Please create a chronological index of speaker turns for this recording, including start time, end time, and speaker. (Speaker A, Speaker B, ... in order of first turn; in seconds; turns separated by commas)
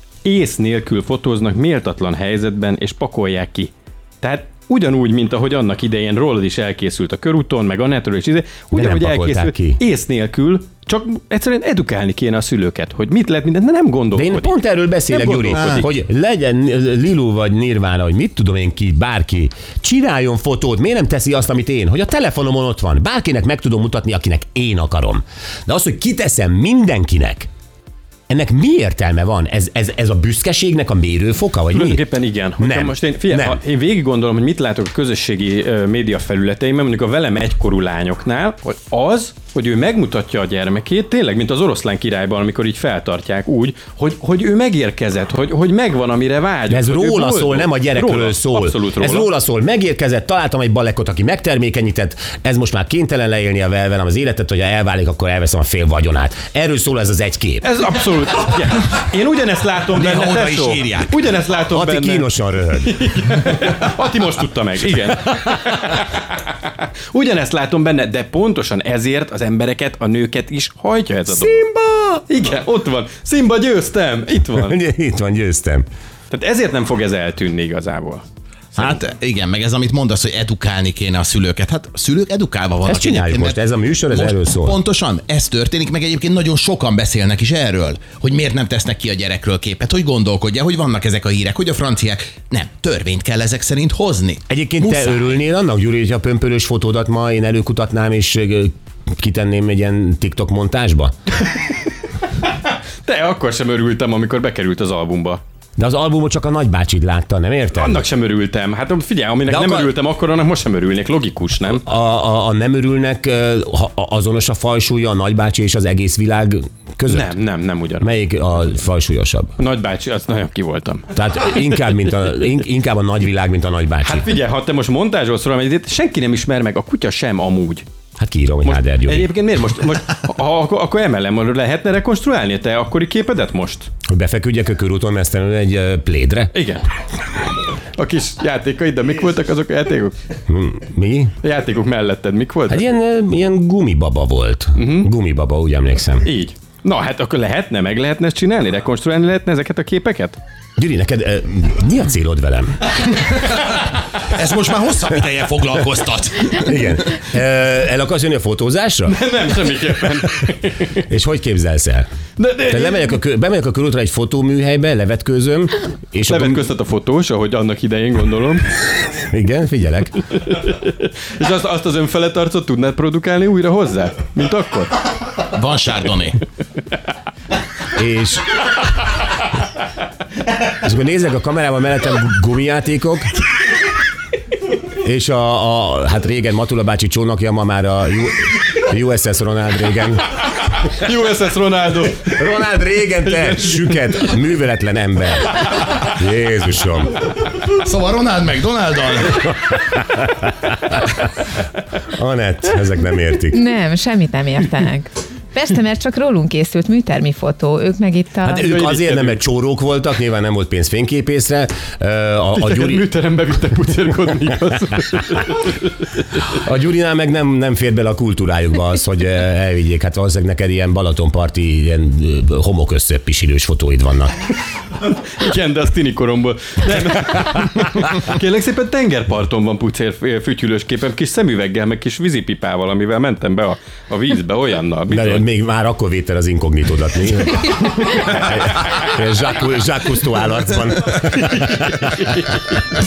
Speaker A: 0.2-3.7, Speaker A: 4.2-14.5, Speaker B: 8.7-9.8, Speaker B: 14.1-27.5, Speaker A: 15.1-15.9, Speaker B: 28.3-32.0, Speaker A: 31.7-49.3, Speaker B: 32.6-33.6, Speaker B: 46.7-57.7, Speaker A: 57.6-62.3, Speaker C: 60.0-61.1, Speaker B: 61.7-63.0, Speaker A: 62.8-71.6, Speaker B: 71.3-72.2, Speaker A: 72.3-74.8, Speaker B: 74.5-75.8, Speaker A: 76.3-78.2, Speaker C: 78.8-95.3, Speaker B: 82.8-84.8, Speaker B: 94.5-101.1, Speaker A: 103.0-105.4, Speaker B: 105.8-108.0, Speaker A: 107.7-111.8, Speaker B: 109.5-109.9, Speaker B: 111.7-117.3, Speaker A: 117.1-118.1, Speaker B: 118.0-119.5, Speaker A: 119.6-121.1, Speaker B: 121.1-124.3, Speaker A: 124.0-127.8, Speaker B: 128.2-129.3, Speaker A: 128.6-133.9, Speaker B: 134.1-136.5, Speaker A: 136.5-136.8, Speaker A: 137.9-140.1, Speaker B: 140.5-141.3, Speaker A: 141.4-142.8, Speaker B: 142.7-146.3, Speaker A: 144.8-145.1, Speaker A: 146.2-150.4, Speaker B: 150.8-153.2, Speaker C: 153.7-156.7, Speaker B: 156.5-159.2, Speaker A: 159.1-161.0, Speaker B: 161.1-162.1, Speaker A: 162.4-163.0, Speaker B: 162.7-166.7, Speaker A: 166.3-168.7, Speaker B: 169.0-170.2, Speaker A: 170.4-174.9, Speaker C: 175.5-176.4, Speaker B: 177.9-178.7, Speaker B: 180.7-183.3, Speaker B: 184.8-190.3, Speaker A: 190.7-192.5, Speaker B: 192.2-197.2, Speaker A: 193.2-193.8, Speaker C: 197.7-199.6, Speaker B: 199.8-201.2, Speaker B: 202.1-203.6, Speaker D: 203.5-208.7, Speaker B: 208.4-213.0, Speaker A: 208.6-209.4, Speaker A: 212.5-216.4, Speaker B: 216.5-224.3, Speaker A: 225.0-235.4, Speaker B: 235.1-242.5